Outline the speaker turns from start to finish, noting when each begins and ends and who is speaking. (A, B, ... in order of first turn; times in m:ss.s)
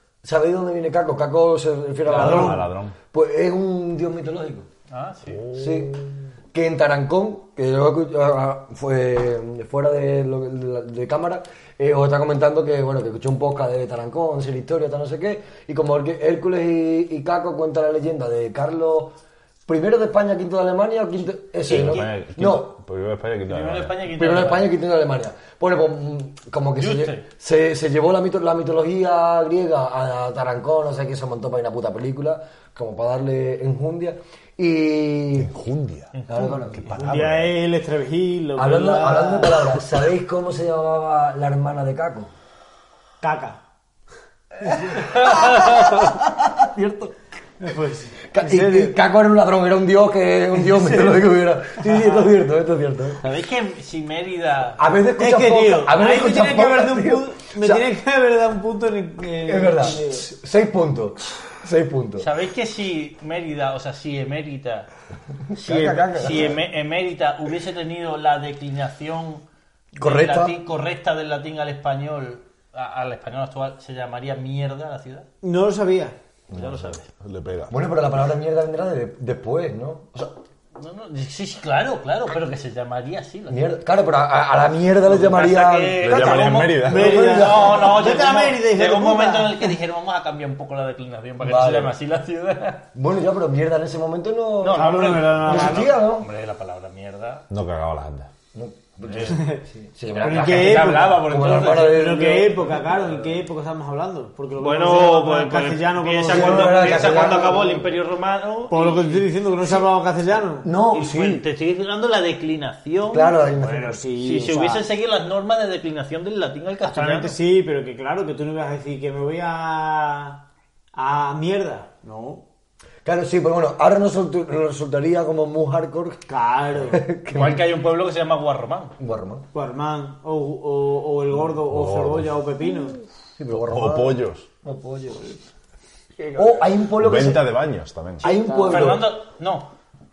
0:00.2-0:04.7 A
0:02.1-0:03.0 B
0:02.1-0:02.6 C
0:04.9-0:05.4 D
0:05.4-0:05.9 B
0:05.5-0:19.1 A
0:19.6-0:22.7 A
0:21.6-0:24.0 B
0:21.7-0:22.0 D
0:23.5-0:24.7 D
0:24.1-0:35.5 A
0:26.8-0:27.2 D
0:35.4-0:36.1 B
0:36.1-0:36.6 D
0:36.3-0:36.8 A
0:36.7-0:37.6 B
0:36.9-0:39.7 C
0:38.6-0:42.3 A
0:43.2-0:43.6 C
0:44.6-0:47.1 A
0:44.9-0:46.0 D
0:47.6-0:49.0 C
0:48.3-0:53.2 A
0:50.7-0:51.2 C
0:51.8-0:52.2 C
0:53.2-0:54.8 D
0:54.8-0:57.8 A
0:55.2-1:00.2 C
0:59.4-1:02.3 A
1:02.2-1:04.9 D
1:05.5-1:06.6 A
1:05.5-1:09.4 D
1:10.0-1:15.2 D
1:10.0-1:10.6 A
1:15.4-1:16.2 C
1:16.5-1:16.9 A
1:16.5-1:17.0 D
1:16.6-1:17.8 B
1:17.7-1:20.4 A
1:20.7-1:23.7 D
1:23.5-1:28.0 A
1:25.0-1:32.8 D
1:26.0-1:27.3 B
1:26.8-1:29.8 C
1:31.4-1:32.0 A
1:32.9-1:36.3 A
1:34.6-1:37.4 D
1:34.7-1:35.9 C
1:37.5-1:38.3 B
1:38.5-1:42.8 A
1:39.1-1:39.4 D
1:39.2-1:39.6 C
1:40.2-1:47.6 C
1:40.2-1:41.8 D
1:44.6-1:49.3 D
1:46.2-1:47.9 A
1:48.7-1:50.7 C
1:50.6-1:51.4 A
1:50.9-1:53.4 D
1:53.1-1:54.0 A
1:53.5-1:54.8 C
1:54.2-1:57.4 D
1:56.9-2:00.4 C
2:00.9-2:02.4 C
2:03.0-2:06.3 A
2:06.3-2:07.0 C
2:06.8-2:07.7 A
2:07.3-2:08.9 D
2:09.0-2:09.5 A
2:09.5-2:13.0 C
2:11.4-2:12.4 B
2:13.4-2:15.3 A
2:13.6-2:14.5 B
2:16.2-2:16.6 C
2:16.3-2:17.5 A
2:16.9-2:18.3 B
2:18.2-2:19.0 A
2:18.2-2:19.0 C
2:18.6-2:19.7 D